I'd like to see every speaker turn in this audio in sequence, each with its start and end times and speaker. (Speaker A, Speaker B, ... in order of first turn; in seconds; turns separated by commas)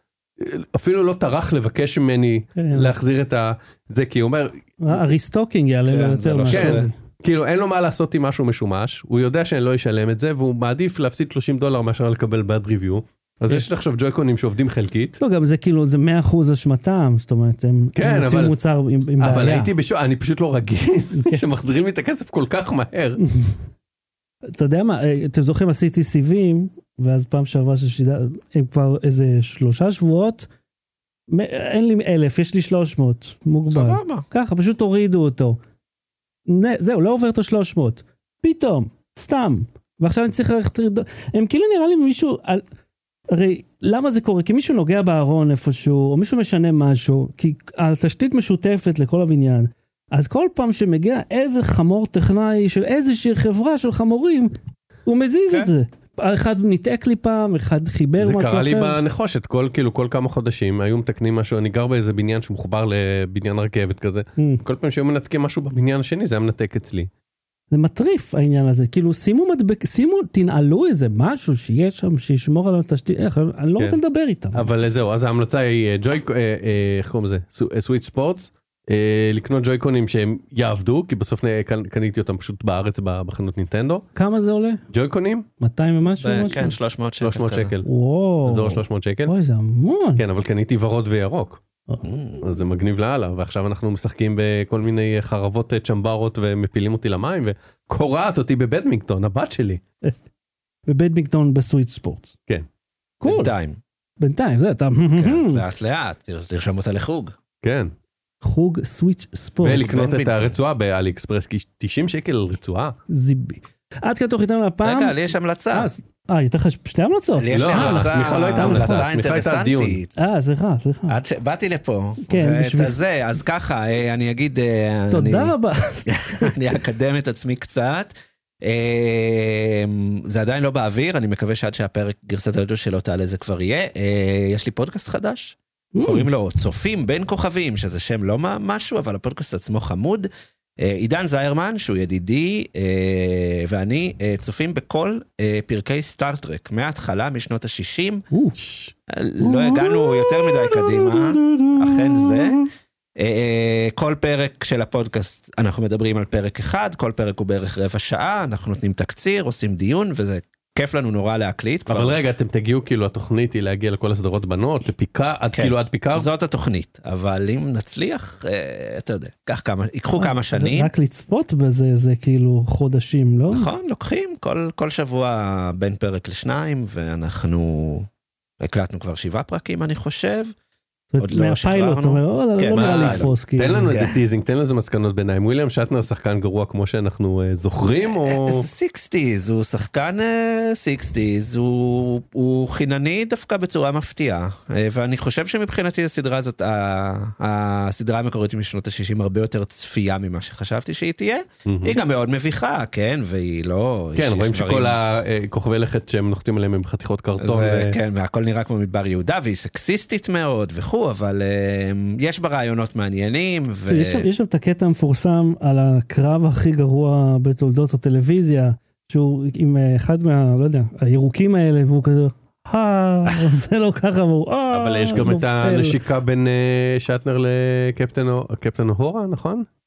Speaker A: 0.4-5.0, Speaker B: 2.6-3.0, Speaker B: 4.8-7.0, Speaker C: 5.9-6.9, Speaker A: 6.5-15.2, Speaker B: 15.2-19.7, Speaker A: 18.0-18.6, Speaker A: 19.2-23.2, Speaker B: 21.2-21.4, Speaker B: 23.2-23.6, Speaker B: 24.5-30.5, Speaker B: 31.3-35.6, Speaker C: 33.7-34.3, Speaker B: 36.5-42.6, Speaker B: 43.3-54.5, Speaker B: 55.1-59.0, Speaker A: 58.2-67.1, Speaker B: 67.7-74.7, Speaker A: 74.5-84.1, Speaker B: 84.2-84.8, Speaker A: 84.9-85.5, Speaker B: 85.6-86.7, Speaker C: 86.2-87.7, Speaker A: 87.2-87.9, Speaker B: 87.8-90.2, Speaker A: 88.5-89.3, Speaker A: 90.2-91.6, Speaker C: 92.0-92.4, Speaker A: 92.4-99.8, Speaker B: 100.9-102.3, Speaker B: 103.2-103.5, Speaker C: 103.2-103.8, Speaker B: 104.2-105.6, Speaker C: 105.2-107.3, Speaker A: 107.6-107.9, Speaker B: 108.4-110.0, Speaker A: 109.6-113.0, Speaker C: 109.8-110.6, Speaker B: 113.1-115.2, Speaker C: 114.8-115.9, Speaker B: 115.7-119.0, Speaker C: 117.4-120.2, Speaker A: 117.5-120.0, Speaker B: 120.2-121.2, Speaker C: 121.1-125.5, Speaker B: 122.2-123.0, Speaker B: 125.1-126.5, Speaker C: 126.1-140.3, Speaker B: 135.9-136.3, Speaker C: 140.8-148.3, Speaker B: 148.3-148.6, Speaker A: 148.6-148.9, Speaker C: 149.1-162.2, Speaker B: 149.4-152.6, Speaker A: 161.9-166.3, Speaker C: 165.5-170.9, Speaker B: 170.2-173.7, Speaker C: 173.5-178.1, Speaker C: 178.6-180.5, Speaker B: 181.1-183.9, Speaker C: 181.2-183.3, Speaker A: 182.7-188.7, Speaker C: 183.9-184.2, Speaker C: 188.0-205.0, Speaker A: 201.7-202.0, Speaker A: 204.2-208.0, Speaker C: 207.4-214.3, Speaker B: 213.9-226.0, Speaker A: 224.7-229.7